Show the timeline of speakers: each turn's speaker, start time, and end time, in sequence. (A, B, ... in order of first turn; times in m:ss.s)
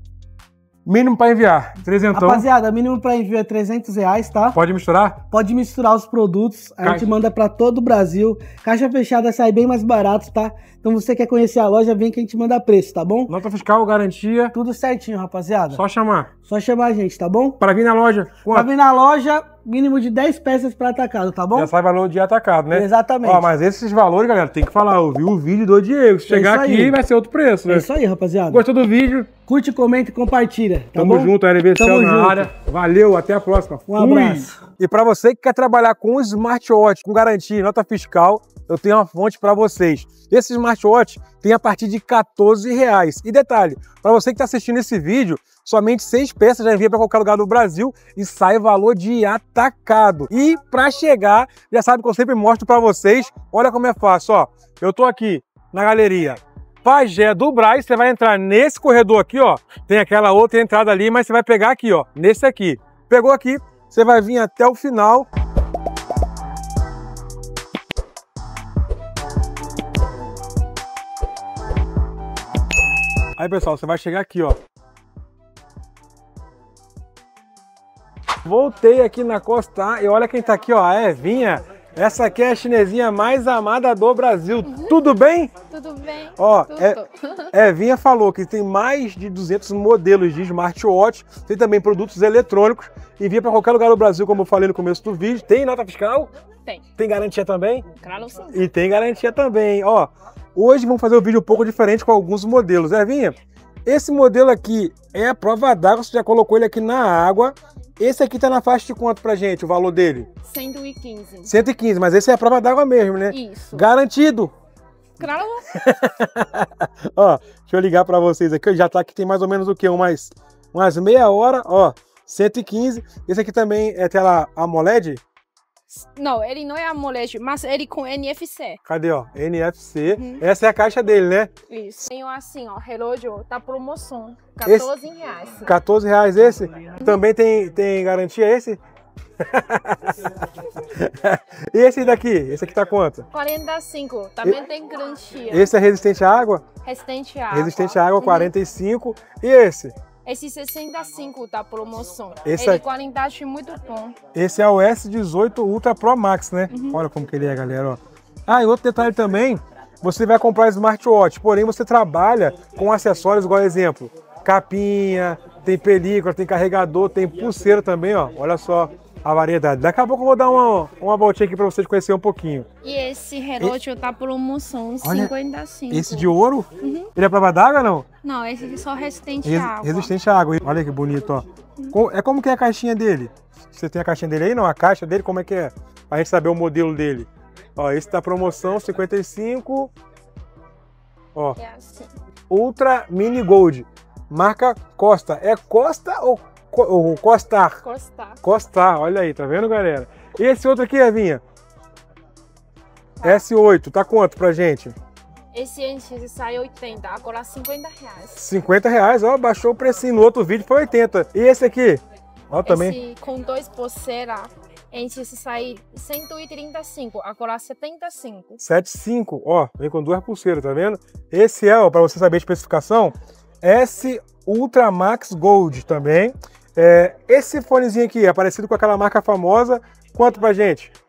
0:00.9-0:02.5 A
0:02.1-0:04.6 B
0:04.5-0:05.2 A
0:05.3-0:13.3 B
0:06.8-0:07.1 A
0:13.3-0:14.6 A
0:14.5-0:15.8 B
0:15.7-0:16.3 A
0:16.4-0:17.6 B
0:17.6-0:18.7 A
0:18.5-0:21.7 B
0:21.5-0:27.9 A
0:22.7-0:23.5 B
0:26.3-0:27.0 B
0:27.7-0:28.6 B
0:28.5-0:29.3 A
0:29.4-0:32.4 B
0:31.0-1:05.3 A
0:33.9-0:34.6 B
1:13.4-1:14.6 A
1:18.4-1:25.5 A
1:24.6-1:25.0 C
1:25.7-1:27.5 C
1:26.4-1:27.0 A
1:27.5-1:36.3 A
1:37.0-1:37.9 A
1:38.0-1:38.6 C
1:38.5-1:50.3 A
1:50.4-1:51.5 C
1:51.5-1:54.5 A
1:53.3-1:53.9 C
1:55.2-1:55.7 C
1:55.7-2:05.2 A
2:05.9-2:08.8 C
2:08.8-2:11.5 A
2:10.1-2:10.4 C
2:11.7-2:15.7 C
2:15.7-2:18.8 A
2:19.4-2:23.3 A
2:23.3-2:25.7 C
2:25.5-2:26.7 A
2:26.8-2:28.5 C
2:27.5-2:30.0 A
2:30.2-2:34.2 C
2:32.4-2:32.8 A
2:34.4-2:52.7 A
2:36.7-2:37.0 C
2:52.8-2:57.1 C
2:55.0-2:55.3 A
2:55.9-2:58.1 A
2:58.2-3:00.1 C
2:59.4-3:09.9 A
3:11.6-3:12.1 C
3:12.5-3:17.8 A
3:17.8-3:18.4 C
3:18.4-3:21.4 A
3:23.2-3:25.0 A
3:25.5-3:28.4 C
3:28.4-3:33.0 A
3:32.7-3:38.6 C
3:38.6-3:51.0 A